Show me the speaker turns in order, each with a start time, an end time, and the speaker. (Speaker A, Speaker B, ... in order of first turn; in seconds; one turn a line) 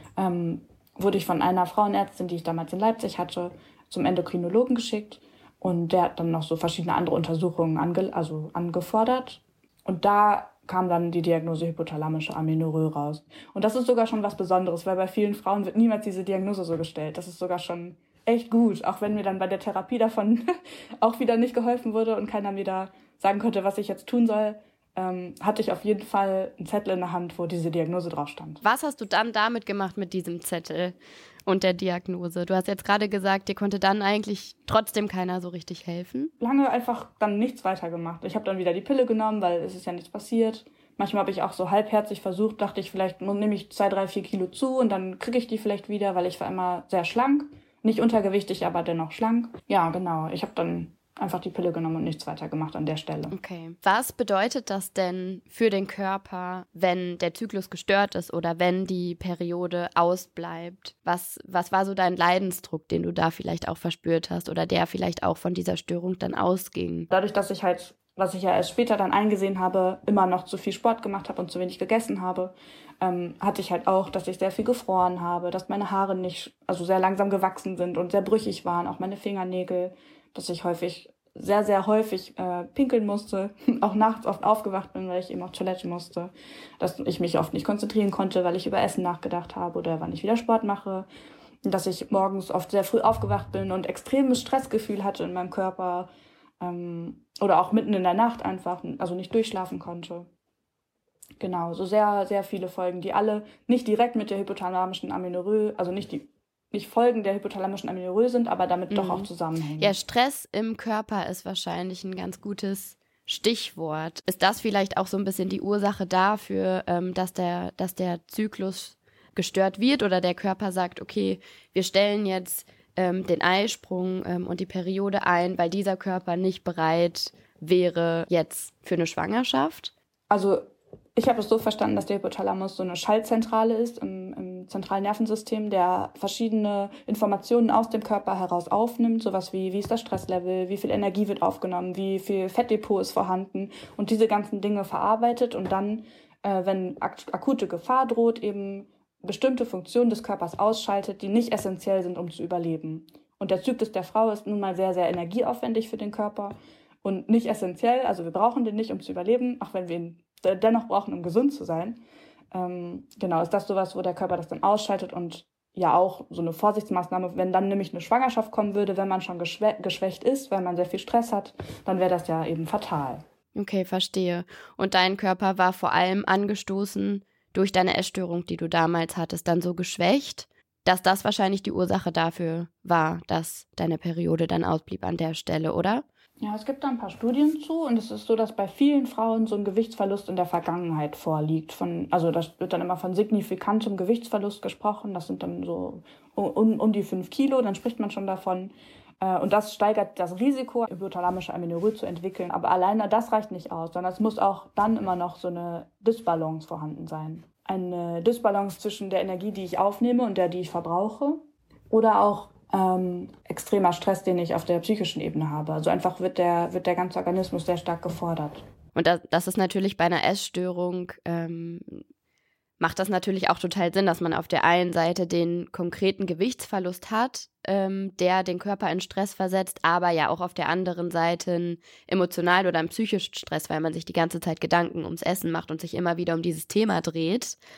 Speaker A: 0.2-28.6
Speaker B: 28.6-30.9
Speaker B: 31.5-36.3
Speaker A: 36.4-53.4
Speaker B: 53.3-67.1
Speaker A: 67.1-91.1
Speaker A: 91.7-96.1
Speaker A: 96.6-100.3
Speaker A: 101.4-110.0
Speaker B: 108.9-109.3
Speaker B: 109.8-129.9
Speaker A: 130.3-173.2
Speaker B: 173.6-186.1
Speaker A: 186.4-218.6
Speaker B: 218.9-222.0
Speaker B: 222.8-237.6